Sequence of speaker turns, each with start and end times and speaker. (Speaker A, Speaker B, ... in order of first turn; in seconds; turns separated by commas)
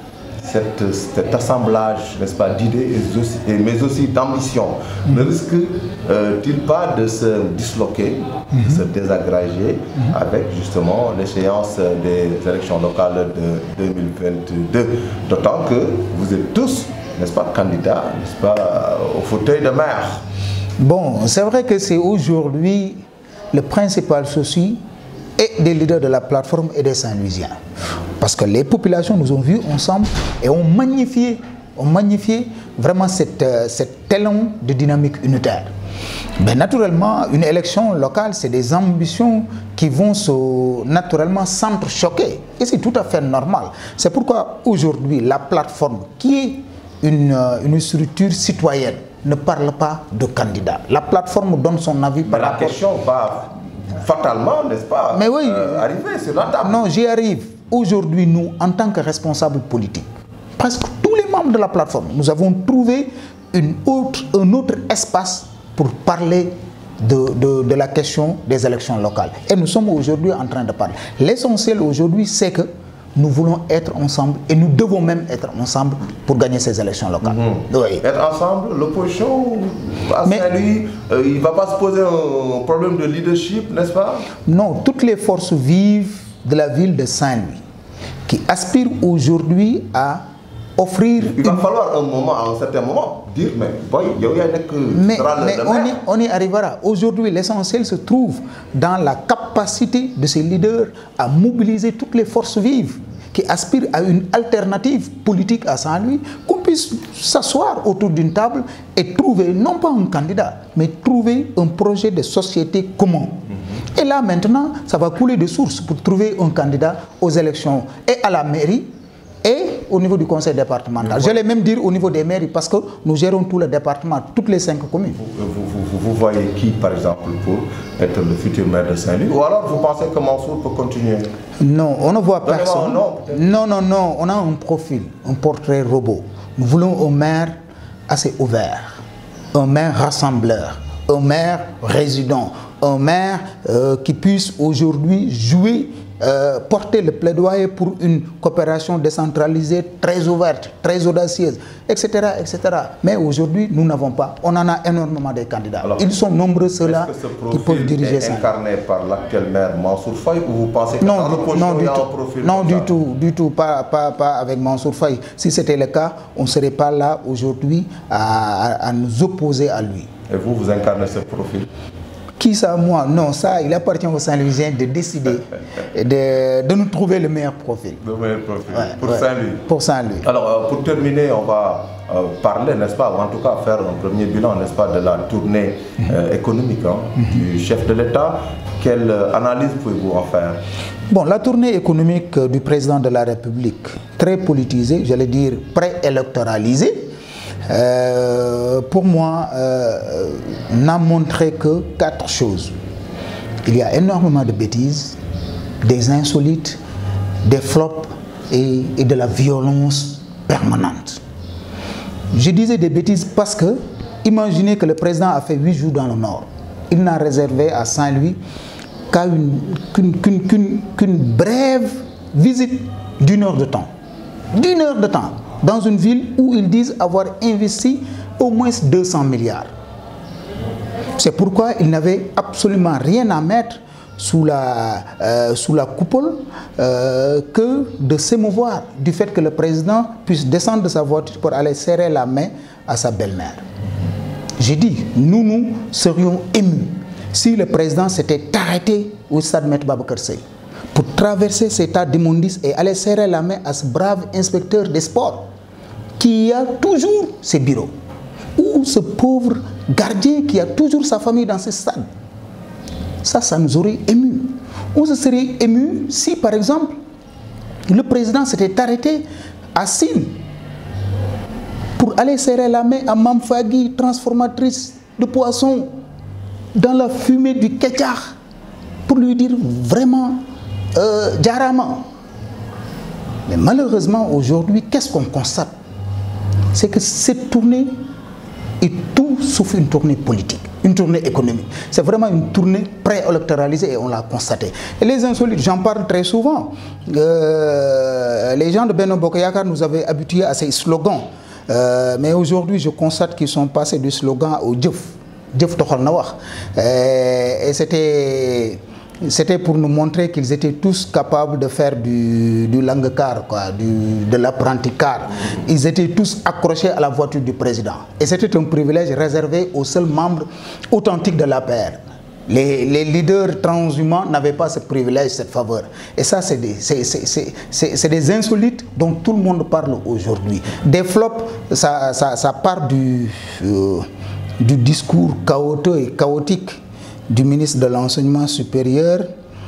Speaker A: 0.4-20.2, Speaker B: 20.8-24.8, Speaker B: 25.4-27.6, Speaker B: 28.2-35.7, Speaker B: 36.4-52.8, Speaker A: 52.2-56.9, Speaker B: 55.1-55.8, Speaker B: 56.6-60.1, Speaker B: 60.6-78.0, Speaker A: 77.2-84.3, Speaker B: 84.5-87.6, Speaker B: 88.2-90.2, Speaker B: 90.8-91.7, Speaker A: 91.2-96.0, Speaker B: 94.9-118.9, Speaker B: 119.4-125.2, Speaker A: 125.2-131.3, Speaker B: 131.6-137.6, Speaker A: 132.4-133.4, Speaker B: 138.1-139.0, Speaker B: 139.5-158.5, Speaker A: 156.8-162.9, Speaker B: 161.0-170.1, Speaker A: 170.3-171.7, Speaker B: 172.4-178.0, Speaker A: 178.0-179.7, Speaker B: 178.7-180.2, Speaker A: 180.2-190.6, Speaker B: 191.1-197.1, Speaker B: 197.7-202.7, Speaker B: 203.6-205.2, Speaker B: 205.8-206.8, Speaker B: 207.4-211.2, Speaker B: 212.3-218.4, Speaker B: 219.1-223.9, Speaker B: 224.5-229.7, Speaker B: 231.2-243.6, Speaker B: 244.6-250.4, Speaker B: 250.9-255.4, Speaker B: 256.2-257.9, Speaker B: 258.6-262.1, Speaker B: 263.2-266.9, Speaker B: 267.9-270.4, Speaker B: 272.0-275.9, Speaker B: 276.7-278.3, Speaker B: 279.1-282.0, Speaker B: 283.5-285.7, Speaker B: 286.7-287.9, Speaker B: 288.8-334.1, Speaker B: 334.6-339.3